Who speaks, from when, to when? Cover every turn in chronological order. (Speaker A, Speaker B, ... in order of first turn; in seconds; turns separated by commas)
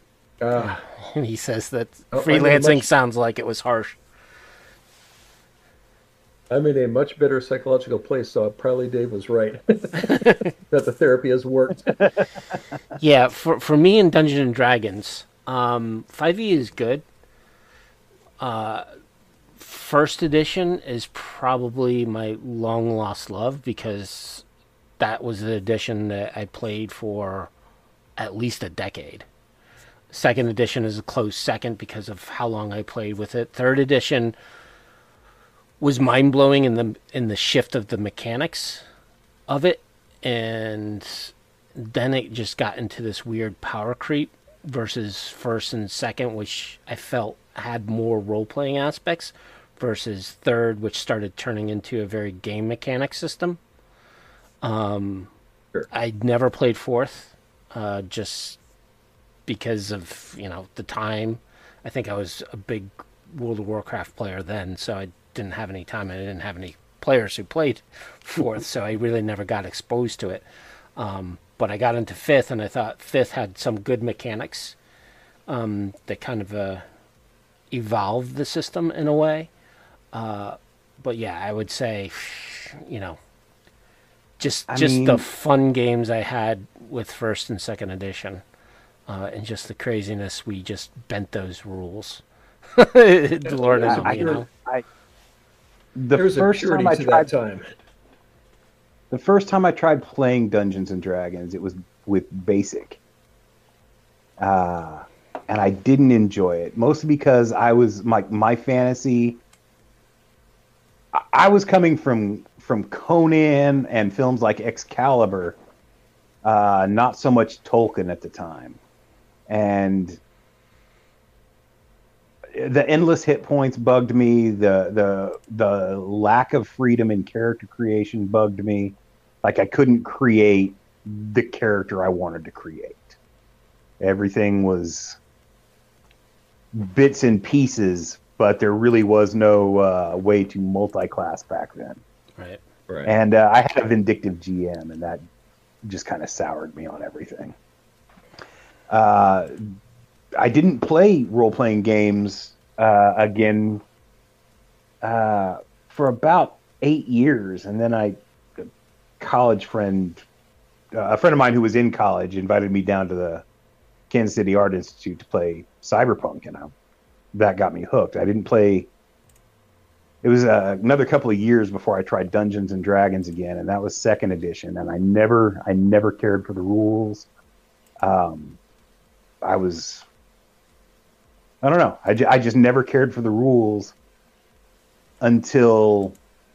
Speaker A: 0.4-0.8, Speaker B: 0.6-4.0, Speaker A: 2.1-2.9, Speaker A: 6.5-12.4, Speaker B: 10.0-10.5, Speaker B: 13.0-17.1, Speaker B: 18.4-18.9, Speaker B: 19.6-24.4, Speaker B: 25.0-27.5, Speaker B: 28.2-29.3, Speaker B: 30.1-34.4, Speaker B: 35.8-38.8, Speaker B: 39.5-53.6, Speaker B: 54.6-55.3, Speaker B: 55.9-58.6, Speaker B: 59.5-70.5, Speaker B: 71.0-74.8, Speaker B: 75.5-76.8, Speaker B: 77.7-79.5, Speaker B: 80.1-83.2, Speaker B: 84.4-88.4, Speaker C: 84.7-85.2, Speaker B: 89.1-92.2, Speaker B: 92.8-94.5, Speaker A: 93.5-94.4, Speaker C: 93.8-94.8, Speaker C: 96.0-97.3, Speaker A: 96.1-97.7, Speaker C: 99.1-103.0, Speaker C: 104.4-109.4, Speaker C: 111.1-115.6, Speaker C: 116.4-118.8, Speaker C: 119.5-120.2, Speaker C: 122.5-133.2, Speaker C: 134.0-135.2, Speaker C: 136.8-142.0, Speaker A: 142.9-143.1, Speaker C: 143.1-145.2, Speaker C: 145.8-147.6, Speaker C: 148.9-149.6, Speaker C: 150.4-153.8, Speaker C: 155.0-160.2, Speaker C: 160.9-163.4, Speaker C: 164.1-166.7, Speaker C: 167.3-168.9, Speaker C: 170.2-177.3, Speaker C: 178.0-178.6, Speaker C: 179.4-180.1, Speaker C: 181.6-183.9, Speaker C: 185.2-186.2